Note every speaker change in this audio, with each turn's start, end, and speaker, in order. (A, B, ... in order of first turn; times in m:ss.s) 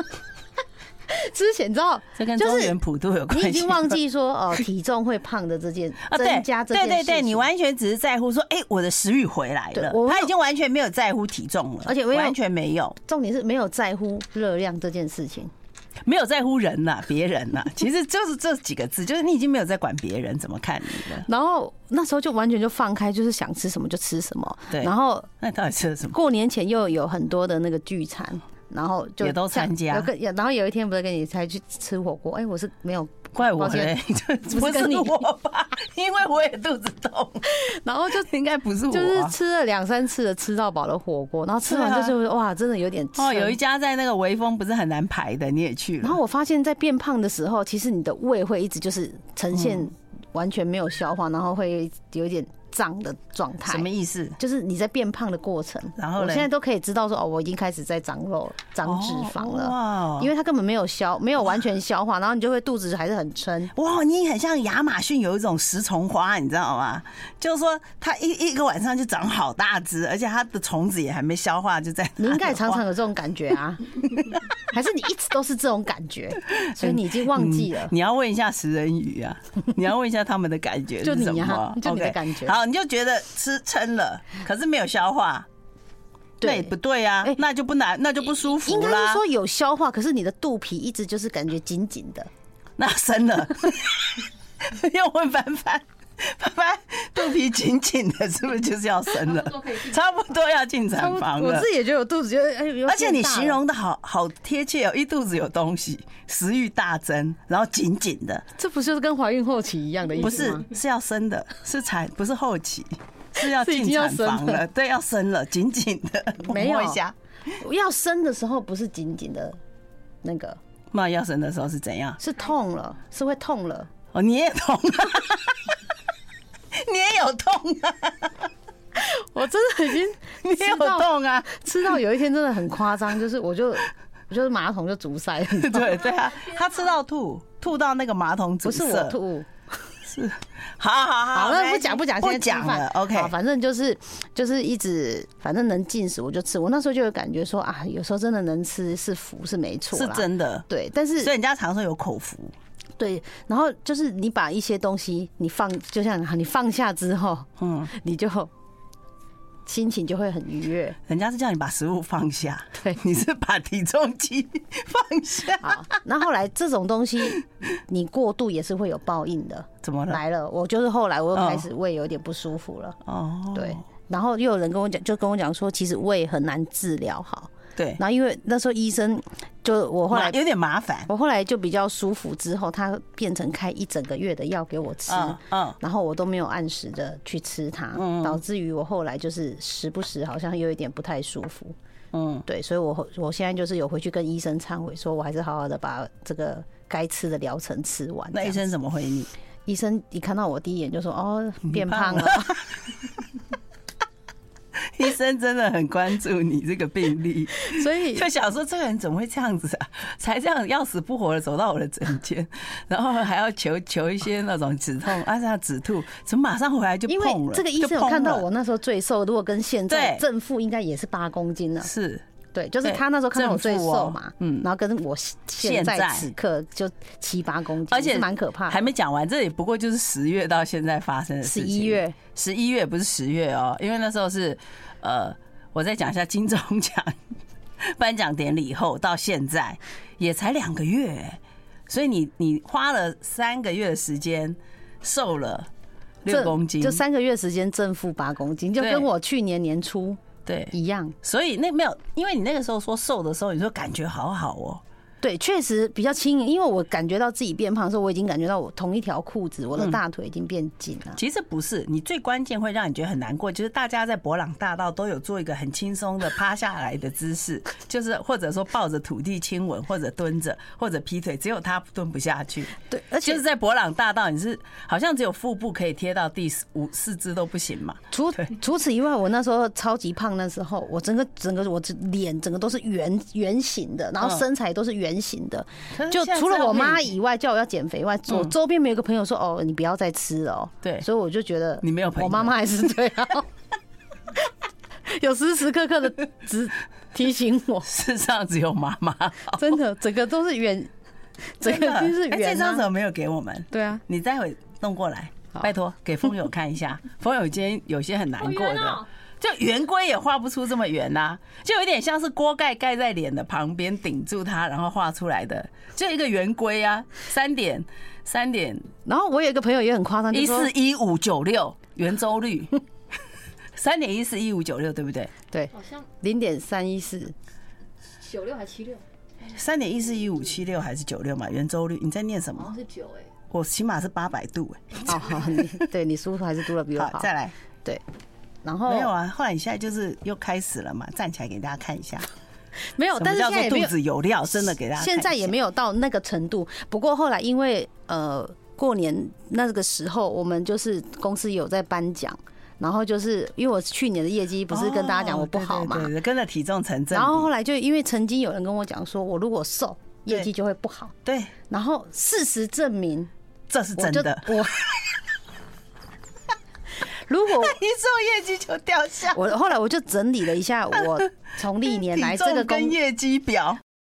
0:01.1-0:02.8 A
0:02.2-0:04.0 B
0:03.3-0:07.5 A
0:06.0-0:13.0 B
0:09.7-0:10.3 A
0:11.8-0:12.4 A
0:13.0-0:15.5 A
0:16.0-0:21.3 B
0:21.2-0:25.3 A
0:24.7-0:26.2 B
0:26.1-0:33.9 A
0:29.2-0:30.1 B
0:33.3-0:37.5 B
0:34.5-0:35.3 A
0:37.4-0:38.3 A
0:38.1-0:39.3 B
0:38.9-0:43.6 A
0:41.6-0:42.1 B
0:43.2-0:46.2 B
0:46.0-0:53.9 A
0:49.5-0:49.8 B
0:53.6-0:54.4 B
0:54.4-1:03.7 A
0:56.0-0:56.5 B
0:58.8-1:00.3 B
1:03.7-1:12.8 B
1:12.2-1:13.8 A
1:14.6-1:17.9 A
1:16.4-1:25.5 B
1:21.0-1:22.6 A
1:26.4-1:26.7 A
1:26.4-1:29.2 B
1:28.6-1:32.3 A
1:32.8-1:41.7 B
1:39.3-1:39.9 C
1:40.9-1:43.6 A
1:42.8-1:48.4 B
1:48.6-1:50.6 A
1:50.2-1:57.1 B
1:53.4-1:54.6 A
1:56.4-1:57.0 A
1:57.6-1:59.6 A
2:00.2-2:00.6 A
2:00.9-2:02.2 B
2:02.2-2:03.9 A
2:04.1-2:05.8 B
2:06.7-2:08.5 B
2:08.9-2:16.2 A
2:10.4-2:11.5 B
2:15.5-2:19.2 B
2:18.6-2:19.6 A
2:20.0-2:23.3 B
2:21.3-2:31.3 A
2:29.9-2:30.6 B
2:31.2-2:32.5 B
2:33.0-2:38.5 A
2:37.6-2:37.9 B
2:39.6-2:41.0 A
2:41.1-2:46.0 B
2:45.6-2:53.0 A
2:49.8-2:50.2 B
2:51.3-2:51.6 B
2:53.0-2:53.8 B
2:53.5-3:00.4 A
2:57.8-2:58.0 B
3:00.1-3:01.1 B
3:01.1-3:11.8 A
3:05.1-3:05.8 B
3:07.9-3:08.4 B
3:12.1-3:12.4 B
3:12.5-3:18.6 A
3:18.3-3:19.3 B
3:19.6-3:22.6 A
3:21.7-3:22.6 B
3:24.9-3:38.4 B
3:27.6-3:28.2 A
3:37.1-3:41.9 A
3:39.9-3:40.2 B
3:41.8-3:42.2 B
3:42.5-3:48.8 A
3:42.8-3:44.6 B
3:45.6-3:46.3 B
3:47.9-3:57.2 B
3:51.4-3:52.2 A
3:57.8-4:05.7 B
4:06.2-4:07.0 B
4:06.3-4:10.2 A
4:08.8-4:09.1 B
4:10.4-4:14.8 B
4:10.7-4:11.2 A
4:15.2-4:21.2 A
4:21.2-4:38.5 B
4:32.9-4:33.4 A
4:38.1-4:53.5 A
4:45.9-4:47.1 B
4:51.8-4:52.6 B
4:55.0-4:57.9 A
4:57.8-4:59.8 B
4:59.6-5:00.9 A
5:01.6-5:02.8 A
5:01.6-5:18.9 B
5:03.7-5:04.0 A
5:08.4-5:09.0 C
5:19.0-5:20.7 A
5:20.3-5:22.8 B
5:23.7-5:25.3 B
5:25.5-5:27.3 A
5:25.7-5:26.1 C
5:28.2-5:29.0 C
5:29.4-5:32.7 B
5:32.6-5:33.3 C
5:33.5-5:35.8 B
5:35.0-5:37.3 A
5:36.9-5:37.5 B
5:38.6-5:39.1 A
5:38.9-5:42.3 B
5:42.8-5:43.9 A
5:43.2-5:45.5 B
5:44.7-5:56.1 A
5:54.7-5:57.5 B
5:57.1-6:01.1 A
6:01.2-6:01.5 B
6:01.7-6:03.3 A
6:03.7-6:05.1 B
6:04.0-6:04.7 A
6:07.3-6:07.8 A
6:07.5-6:09.4 B
6:09.3-6:13.0 A
6:12.0-6:13.8 B